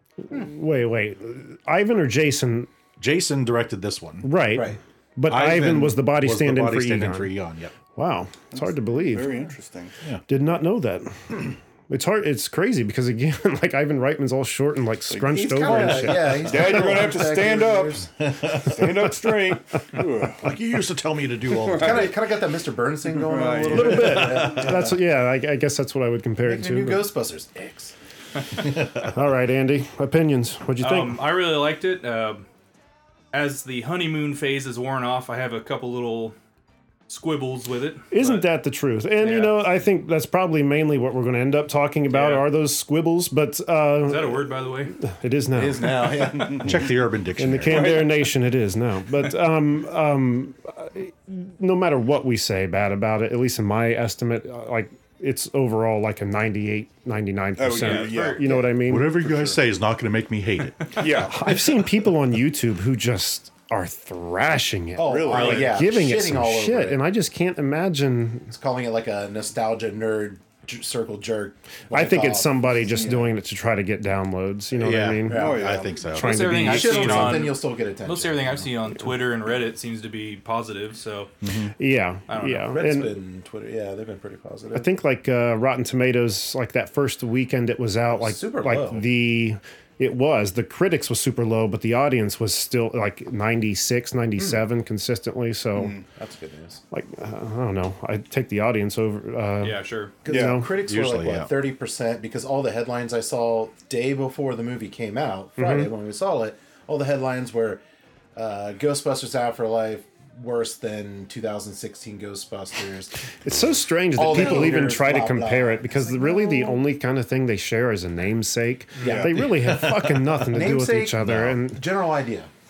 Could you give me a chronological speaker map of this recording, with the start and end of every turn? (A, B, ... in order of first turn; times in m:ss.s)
0:00.3-0:02.7 A
0:03.0-0:04.3 B
0:04.2-0:07.3 A
0:05.3-0:07.7 B
0:07.9-0:09.4 A
0:08.5-0:09.9 C
0:10.3-0:17.0 A
0:15.1-0:20.5 C
0:15.3-0:18.1 D
0:18.2-0:19.1 B
0:20.4-0:22.2 B
0:21.5-0:22.0 C
0:21.7-0:25.0 D
0:23.1-0:24.2 C
0:23.7-0:27.1 A
0:23.8-0:24.7 B
0:26.4-0:27.9 D
0:28.6-0:29.1 B
0:29.0-0:31.3 A
0:30.8-0:32.4 E
0:33.3-0:36.4 E
0:37.1-0:38.4 E
0:38.1-0:44.4 A
0:39.2-0:39.6 E
0:42.1-0:42.5 E
0:44.0-0:44.9 E
0:45.0-0:46.5 A
0:45.5-0:46.9 D
0:46.6-0:47.9 B
0:47.4-0:59.2 A
0:47.7-0:48.2 C
0:57.6-0:58.6 C
0:57.8-0:58.4 E
0:58.7-1:01.0 B
0:59.3-0:59.6 C
1:01.0-1:01.4 C
1:01.3-1:08.5 A
1:05.0-1:07.0 D
1:05.0-1:05.8 C
1:08.5-1:13.3 D
1:11.9-1:15.5 A
1:14.8-1:16.6 B
1:15.3-1:15.7 D
1:15.3-1:16.1 C
1:16.1-1:17.5 A
1:16.1-1:21.3 E
1:16.6-1:18.7 D
1:21.4-1:21.7 B
1:21.8-1:23.2 A
1:22.3-1:22.8 E
1:22.7-1:24.9 D
1:24.7-1:36.0 A
1:28.1-1:29.0 D
1:35.7-1:36.0 C
1:36.1-1:36.8 D
1:36.9-1:40.6 A
1:39.6-1:40.1 E
1:40.2-1:47.8 D
1:40.3-1:40.6 C
1:40.8-1:41.5 B
1:45.6-1:45.9 A
1:48.3-1:53.3 D
1:53.4-2:01.8 A
1:54.2-1:56.8 D
1:59.0-1:59.3 D
1:59.0-1:59.3 C
1:59.4-2:00.4 B
2:00.5-2:02.5 D